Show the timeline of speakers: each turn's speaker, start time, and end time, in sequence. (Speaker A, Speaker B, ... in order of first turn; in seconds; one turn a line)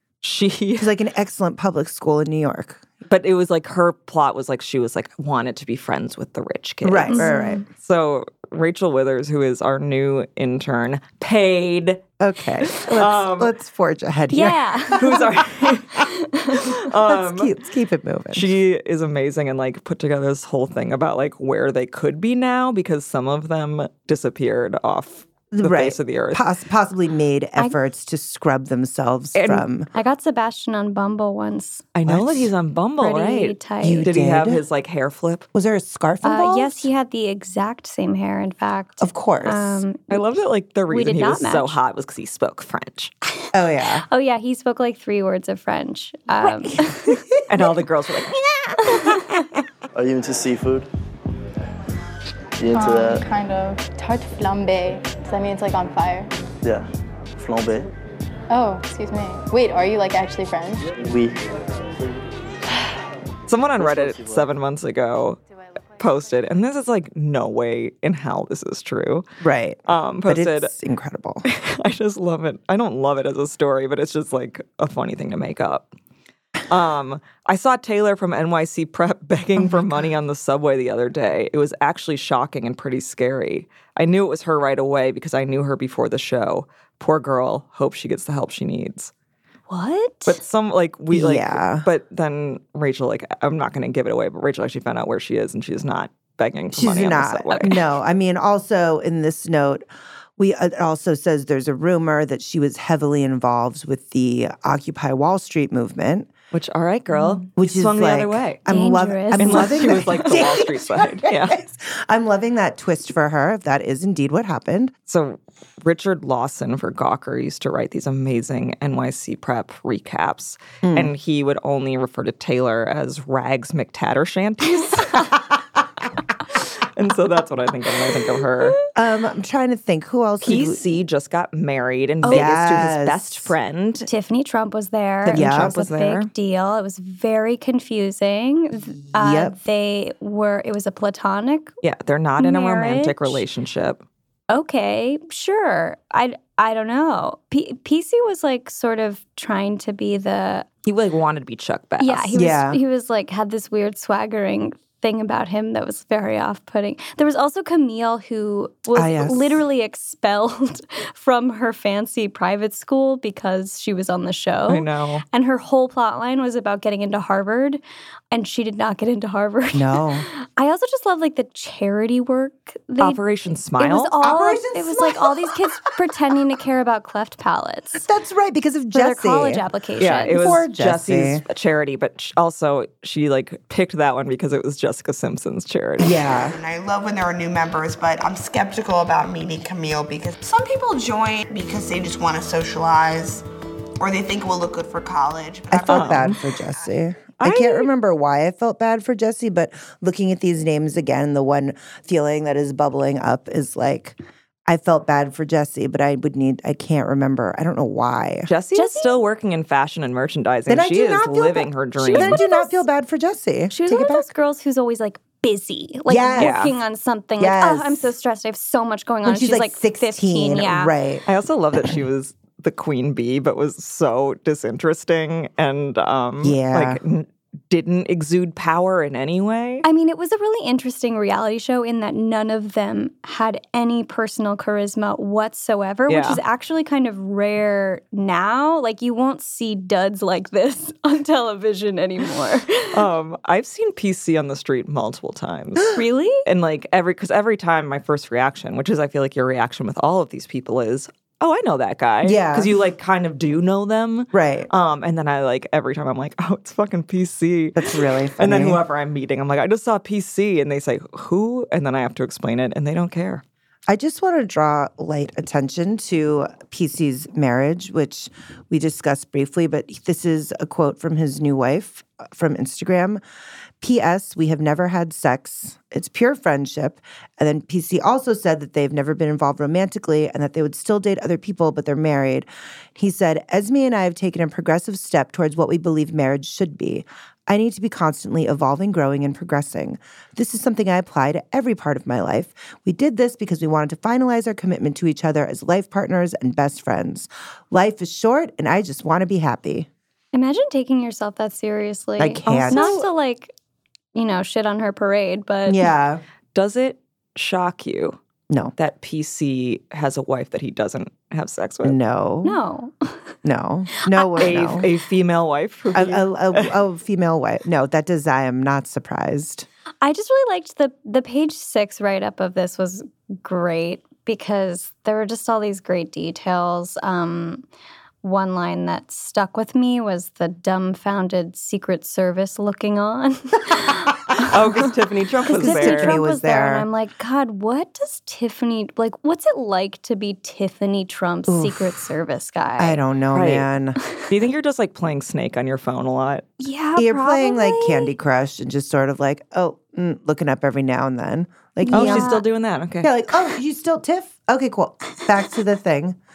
Speaker A: 0.2-0.9
Speaker B: 0.8-2.9
Speaker A: 3.1-12.0
Speaker B: 6.8-7.6
Speaker C: 7.1-7.6
Speaker B: 12.2-15.3
Speaker A: 12.7-13.5
Speaker C: 14.3-15.3
Speaker A: 15.0-16.0
Speaker C: 16.0-16.6
Speaker A: 16.5-17.5
Speaker B: 17.1-18.6
Speaker A: 18.3-26.4
Speaker B: 25.5-29.9
Speaker A: 29.3-29.7
Speaker C: 29.9-31.9
Speaker A: 31.9-35.5
Speaker B: 32.1-32.5
Speaker C: 33.0-34.1
Speaker B: 33.8-34.6
Speaker B: 35.5-36.9
Speaker C: 36.2-40.2
Speaker B: 39.0-39.8
Speaker A: 40.1-43.1
Speaker C: 40.9-41.8
Speaker B: 43.5-44.0
Speaker C: 44.1-47.2
Speaker B: 46.4-47.2
Speaker A: 47.5-48.4
Speaker C: 48.8-49.3
Speaker D: 49.9-50.9
Speaker D: 52.6-53.3
Speaker E: 52.7-56.3
Speaker D: 56.6-57.9
Speaker E: 58.5-60.9
Speaker D: 61.0-62.2
Speaker A: 63.5-65.4
Speaker D: 63.8-64.4
Speaker A: 66.0-69.3
Speaker B: 69.4-71.4
Speaker A: 69.9-70.7
Speaker A: 71.5-75.9
Speaker A: 76.7-89.1
Speaker B: 79.6-80.1
Speaker C: 89.7-90.4
Speaker A: 90.3-97.8
Speaker B: 91.1-91.9
Speaker B: 96.7-99.8
Speaker B: 100.4-106.3
Speaker A: 106.5-108.6
Speaker C: 107.1-107.5
Speaker B: 107.6-114.9
Speaker C: 108.7-110.3
Speaker A: 109.4-111.6
Speaker A: 115.1-125.2
Speaker B: 120.8-121.1
Speaker A: 126.9-128.8
Speaker B: 128.9-130.9
Speaker A: 130.4-134.1
Speaker C: 132.2-132.5
Speaker B: 132.2-133.5
Speaker C: 134.1-141.7
Speaker A: 135.2-136.3
Speaker B: 135.3-135.7
Speaker B: 139.1-139.6
Speaker A: 141.8-144.0
Speaker C: 142.4-143.4
Speaker C: 144.5-150.7
Speaker A: 150.9-152.4
Speaker C: 152.0-173.2
Speaker B: 152.3-152.8
Speaker B: 158.9-159.6
Speaker A: 164.7-165.2
Speaker B: 169.7-170.3
Speaker A: 173.0-174.2
Speaker C: 173.8-178.1
Speaker B: 174.2-175.6
Speaker B: 178.0-179.6
Speaker C: 178.9-180.4
Speaker A: 180.0-186.3
Speaker B: 180.3-181.4
Speaker B: 186.0-186.6
Speaker F: 186.4-193.4
Speaker F: 194.0-196.2
Speaker B: 195.7-208.5
Speaker A: 195.8-196.4
Speaker A: 197.4-197.9
Speaker A: 208.5-212.4
Speaker C: 208.8-209.2
Speaker B: 210.7-214.3
Speaker C: 212.1-212.8
Speaker C: 213.7-220.9
Speaker B: 216.1-216.6
Speaker A: 216.4-216.7
Speaker B: 217.4-218.1
Speaker B: 219.2-221.2
Speaker A: 221.3-229.8
Speaker B: 226.4-227.0
Speaker C: 229.8-243.0
Speaker A: 236.1-236.4
Speaker A: 242.9-245.9
Speaker C: 245.9-246.4
Speaker A: 246.4-263.4
Speaker B: 252.2-252.8
Speaker B: 254.3-254.7
Speaker B: 257.8-258.8
Speaker B: 263.9-273.2
Speaker B: 273.8-299.9
Speaker C: 300.3-303.5
Speaker B: 302.2-303.1
Speaker A: 302.5-302.9
Speaker C: 304.1-305.9
Speaker B: 305.7-306.2
Speaker A: 306.6-308.2
Speaker A: 308.8-312.0
Speaker B: 311.8-312.6
Speaker C: 312.4-313.4
Speaker B: 313.4-314.9
Speaker A: 314.4-316.7
Speaker B: 315.9-319.7
Speaker C: 320.0-327.6
Speaker C: 328.2-334.5
Speaker A: 334.4-336.2
Speaker C: 335.5-343.0
Speaker B: 335.5-336.9
Speaker B: 341.5-341.9
Speaker B: 342.8-344.0
Speaker A: 343.3-343.7
Speaker A: 344.3-346.4
Speaker C: 346.6-348.1
Speaker B: 347.0-352.4
Speaker C: 351.9-352.5
Speaker A: 351.9-353.1
Speaker B: 353.0-356.2